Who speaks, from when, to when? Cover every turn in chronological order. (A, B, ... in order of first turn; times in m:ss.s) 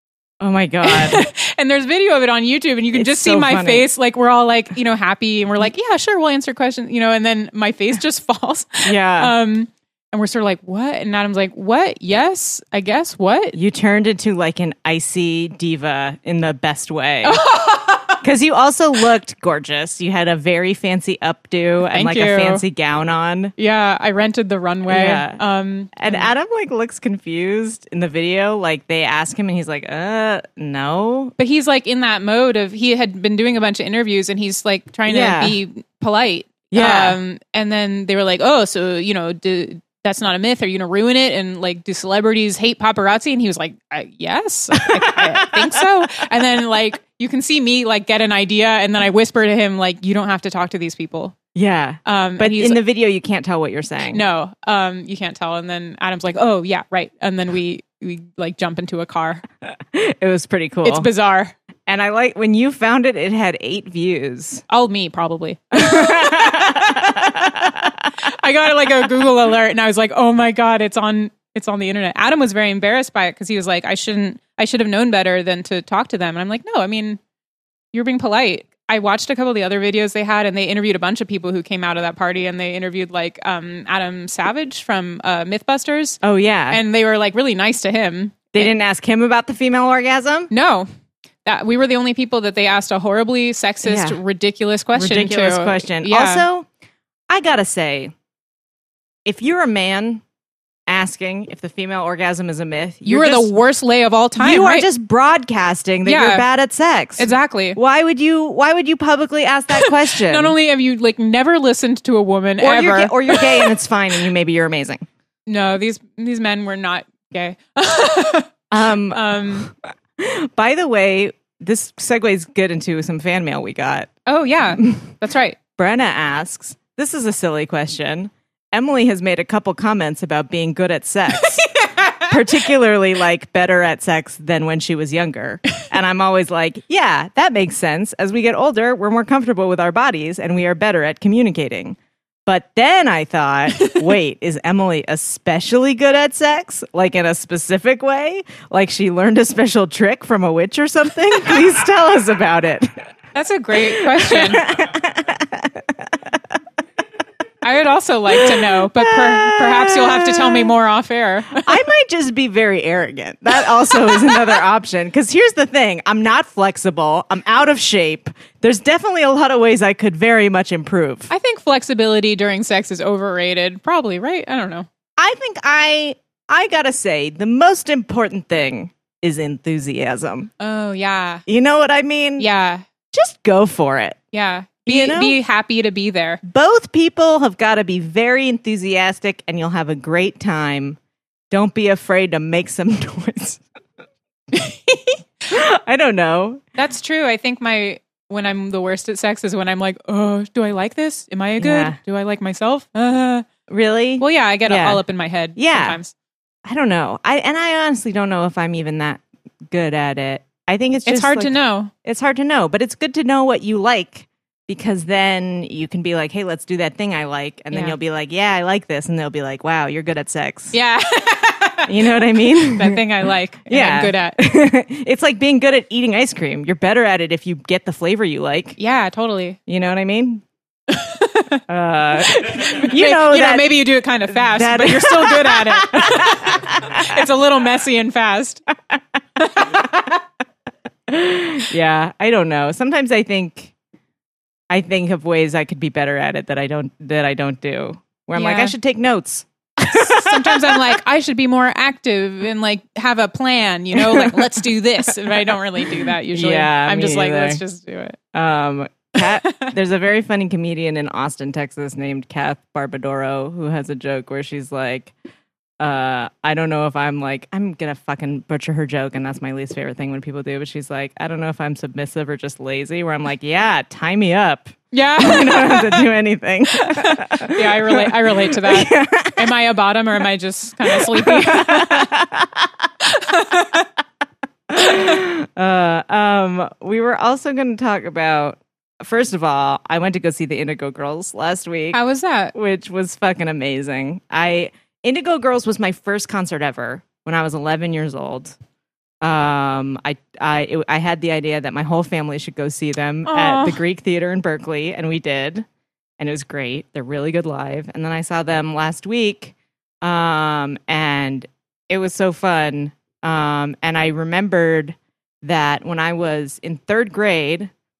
0:00.4-0:01.2 A
0:00.8-0:13.6 B
0:02.9-0:03.9 A
0:08.8-0:09.3 A
0:13.5-0:17.5 A
0:17.2-0:18.2 B
0:18.1-0:23.5 A
0:21.8-0:22.6 B
0:23.6-0:26.3 B
0:24.9-0:25.4 A
0:25.9-0:31.3 A
0:31.4-0:51.4 B
0:35.1-0:35.6 A
0:36.7-0:37.2 A
0:44.9-0:46.2 A
0:51.5-0:54.2 A
0:52.0-0:52.8 B
0:54.1-0:59.4 B
0:59.6-1:01.1 A
1:00.8-1:01.5 B
1:01.9-1:04.6 A
1:04.7-1:07.7 B
1:05.7-1:07.9 A
1:08.2-1:17.2 B
1:17.9-1:28.7 B
1:26.2-1:26.8 A
1:28.5-1:30.5 A
1:30.5-1:30.9 B
1:31.4-1:36.5 B
1:33.8-1:34.2 A
1:34.9-1:36.7 A
1:37.3-1:38.1 A
1:39.2-1:40.2 A
1:40.9-1:43.5 A
1:43.0-1:44.9 B
1:44.4-1:50.5 A
1:46.0-1:46.4 B
1:47.2-1:47.8 B
1:49.7-1:53.7 B
1:52.6-1:55.0 A
1:55.5-1:58.5 B
1:58.7-2:04.1 A
1:59.1-1:59.7 B
2:04.2-2:05.6 B
2:05.8-2:33.0 A
2:11.4-2:12.3 B
2:33.3-2:34.7 B
2:33.9-2:36.1 A
2:37.6-2:41.8 B
2:38.3-2:40.7 A
2:41.6-2:51.3 A
2:51.3-2:54.9 B
2:55.2-3:00.5 A
3:00.6-3:01.4 B
3:01.4-3:02.5 A
3:02.4-3:02.8 B
3:03.1-3:04.2 A
3:04.3-3:06.4 B
3:04.8-3:05.4 A
3:06.4-3:11.0 A
3:11.5-3:13.6 A
3:15.5-3:16.6 A
3:16.8-3:23.4 B
3:21.6-3:22.0 A
3:23.7-3:25.0 A
3:24.2-3:26.1 B
3:25.5-3:26.0 A
3:26.6-3:40.8 A
3:31.0-3:31.9 B
3:40.7-3:44.4 B
3:41.8-3:43.0 A
3:43.7-3:48.8 A
3:48.8-3:49.6 B
3:49.7-3:50.4 A
3:50.9-3:51.6 B
3:51.7-3:57.2 A
3:52.1-3:58.6 B
3:59.4-3:59.8 B
3:59.6-4:00.1 A
4:01.1-4:03.7 A
4:04.7-4:10.9 A
4:08.4-4:08.8 B
4:09.8-4:18.2 B
4:13.9-4:17.6 A
4:18.3-4:25.1 A
4:19.2-4:19.7 B
4:25.8-4:39.5 A
4:34.9-4:36.1 B
4:36.7-4:42.1 B
4:40.8-4:42.7 A
4:43.1-4:43.8 B
4:44.7-4:52.0 A
4:51.9-4:52.5 B
4:52.5-4:58.6 A
4:59.2-5:05.6 A
5:03.2-5:03.8 B
5:06.2-5:17.7 A